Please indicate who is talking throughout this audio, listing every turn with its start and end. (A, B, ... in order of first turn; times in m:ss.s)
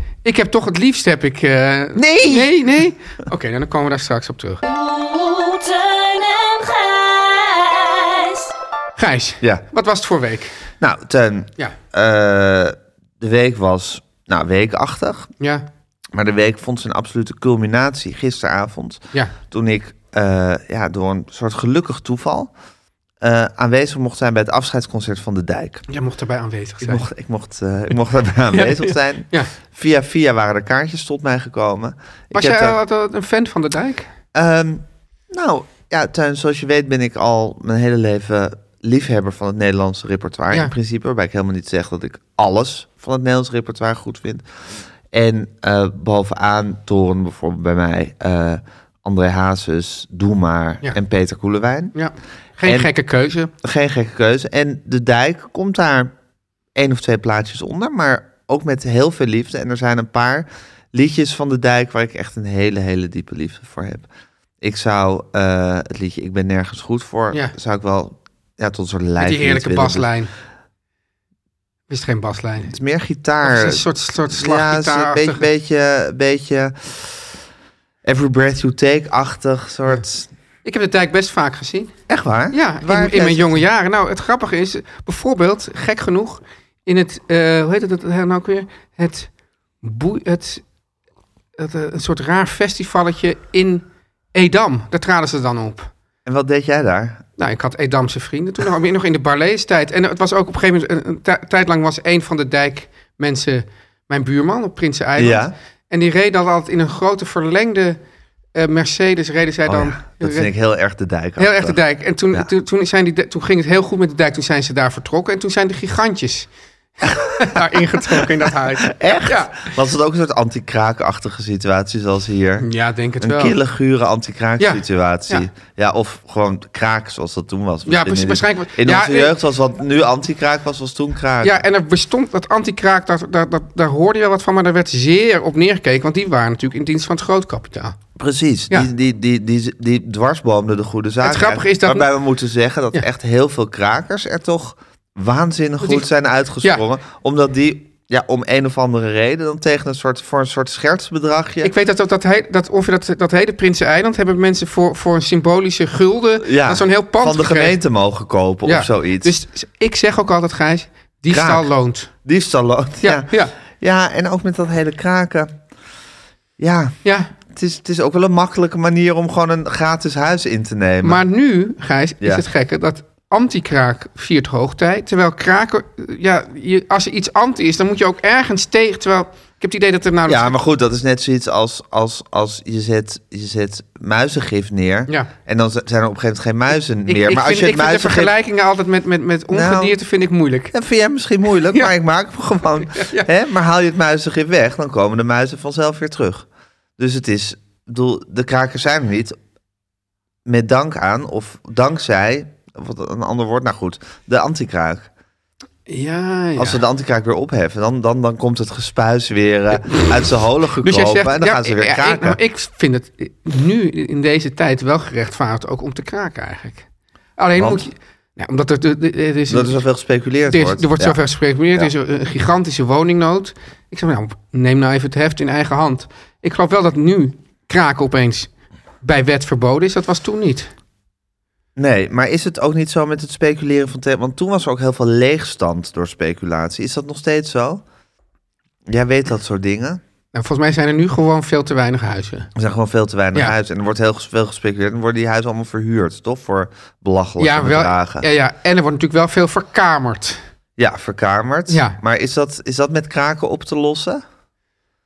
0:00.2-0:04.6 A
0:01.9-0:02.6 B
0:04.6-0:08.5 C
0:09.0-0:10.5 A
0:10.8-0:15.3 B
0:15.4-0:15.6 A
0:16.1-0:22.5 B
0:23.2-0:25.8 B
0:25.9-0:27.0 A
0:26.8-0:32.8 B
0:28.5-0:29.5 A
0:32.3-0:34.1 A
0:34.3-0:44.4 B
0:45.1-0:51.9 B
0:51.9-0:53.5 A
0:52.6-0:52.9 B
0:53.6-0:56.1 B
0:56.7-1:04.1 B
1:04.6-1:10.1 B
1:09.2-1:10.3 A
1:11.9-1:12.7 A
1:12.6-1:17.1 B
1:13.4-1:15.4 A
1:18.0-1:20.3 B
1:20.6-1:21.9 A
1:22.1-1:23.6 B
1:22.5-1:29.3 A
1:29.8-1:30.6 A
1:31.6-1:35.9 A
1:36.2-1:37.2 B
1:37.4-1:48.0 A
1:45.2-1:45.5 B
1:48.5-1:50.5 A
1:49.7-1:51.8 B
1:51.4-1:56.5 A
1:57.0-1:59.7 A
1:57.1-2:02.7 B
2:02.6-2:03.6 A
2:03.2-2:11.6 B
2:04.6-2:05.5 A
2:07.9-2:09.3 A
2:11.4-2:17.9 A
2:18.2-2:31.7 B
2:21.2-2:22.1 A
2:25.8-2:26.1 A
2:31.6-2:37.8 A
2:36.4-2:39.3 B
2:38.6-2:42.1 A
2:41.3-2:41.7 B
2:42.2-2:45.6 B
2:43.0-2:43.5 A
2:46.6-2:46.9 B
2:47.0-2:47.3 A
2:47.5-2:51.2 B
2:51.0-3:00.5 A
3:00.3-3:08.3 B
3:07.1-3:10.7 A
3:09.5-3:10.0 B
3:10.7-3:16.5 B
3:12.9-3:13.3 A
3:17.0-3:19.4 B
3:20.4-3:25.1 B
3:25.9-3:26.8 A
3:26.6-3:32.4 B
3:30.8-3:36.8 A
3:37.4-3:39.8 A
3:37.6-3:37.8 B
3:39.5-3:41.2 B
3:40.5-3:48.5 A
3:49.0-3:50.7 A
3:51.8-3:57.8 B
3:58.9-4:00.0 B
4:00.3-4:02.5 A
4:02.5-4:08.2 B
4:07.4-4:10.4 A
4:10.8-4:14.2 B
4:11.7-4:12.0 A